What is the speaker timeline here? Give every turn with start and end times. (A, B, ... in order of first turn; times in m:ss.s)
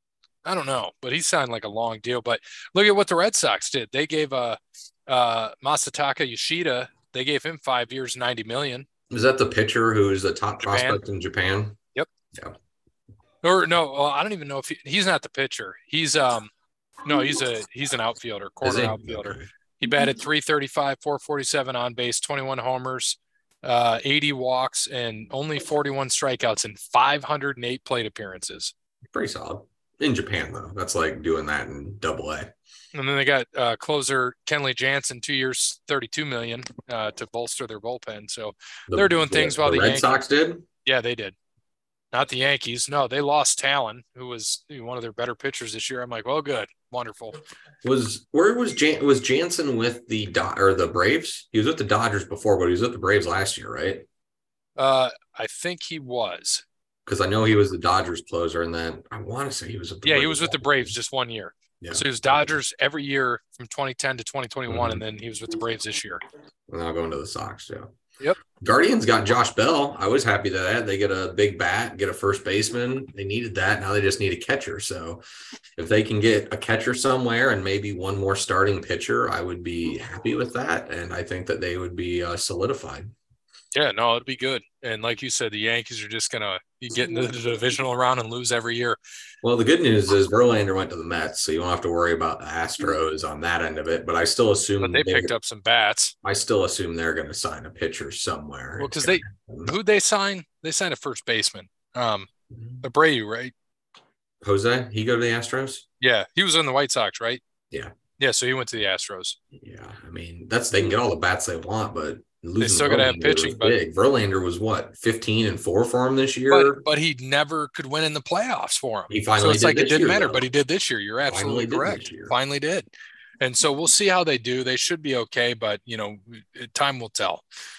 0:00.4-0:08.9 A
0:09.1-0:11.8 B
0:10.6-0:11.0 A
0:13.4-0:16.5 A
0:17.0-0:28.7 A
0:18.6-0:19.5 B
0:29.1-0:32.5 B
0:32.9-0:40.2 A
0:38.9-0:40.6 B
0:40.8-0:41.4 A
0:42.1-0:47.4 A
0:47.8-0:54.1 B
0:54.8-0:56.6 A
0:57.1-1:00.9 B
1:00.0-1:06.2 A
1:01.8-1:02.5 B
1:04.7-1:05.0 B
1:06.7-1:07.9 B
1:08.6-1:15.2 B
1:15.8-1:23.1 B
1:23.7-1:29.0 A
1:29.4-1:35.3 B
1:34.8-1:36.1 A
1:36.2-1:39.7 B
1:38.8-1:42.3 A
1:42.8-1:43.5 A
1:44.4-1:45.9 B
1:46.0-1:47.4 A
1:48.2-1:49.4 A
1:49.6-1:56.8 B
1:52.6-1:53.8 A
1:56.5-2:02.9 A
1:59.1-2:00.5 B
2:01.3-2:02.4 B
2:03.4-2:07.4 A